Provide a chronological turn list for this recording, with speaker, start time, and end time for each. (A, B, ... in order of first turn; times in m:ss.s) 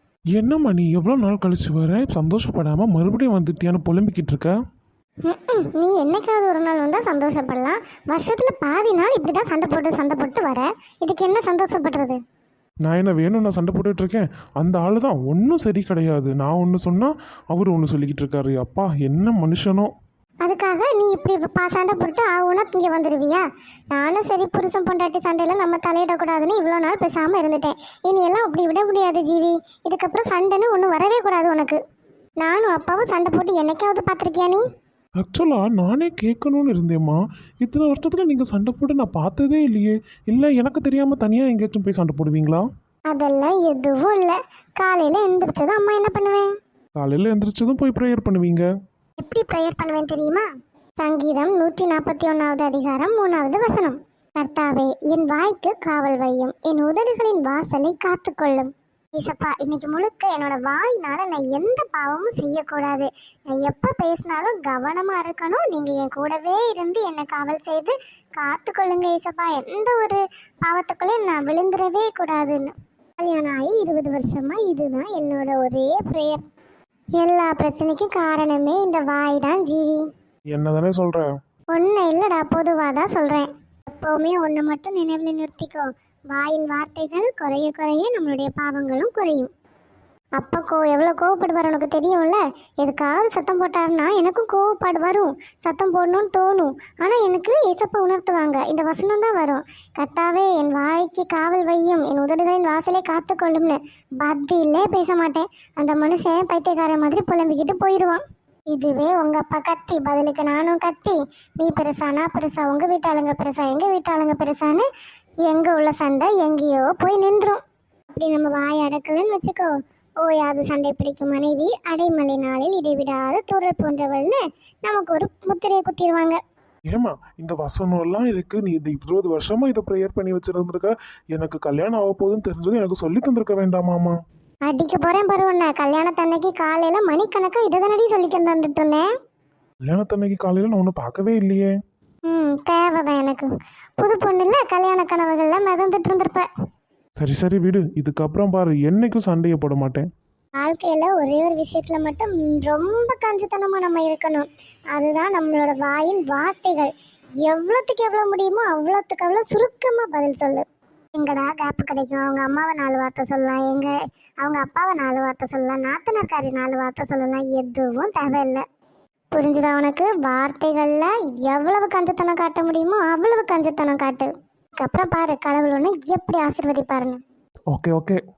0:00.3-0:04.5 A
0:05.2-0:12.2 B
0:12.8-0:19.9 A
0:20.4-0:31.8 B
0:32.4-0:34.6 B
0:35.2-0:42.7 A
0:43.1-0:46.6 B
0:47.0-0:48.7 A
0:49.2-0:50.5 B
0:51.0-1:16.4 B
1:17.2-1:20.1 B
1:20.5-1:21.3 A
1:21.7-1:29.5 B
1:30.4-1:54.9 B
1:55.4-1:57.6 B
1:58.1-1:59.7 B
2:00.2-2:06.4 B
2:06.9-2:14.2 A
2:14.6-2:19.1 B
2:19.9-2:21.7 A
2:22.3-2:26.5 B
2:27.2-2:30.0 A
2:30.6-2:36.9 B
2:37.4-2:48.6 B
2:49.3-2:57.2 B
2:57.7-2:58.2 A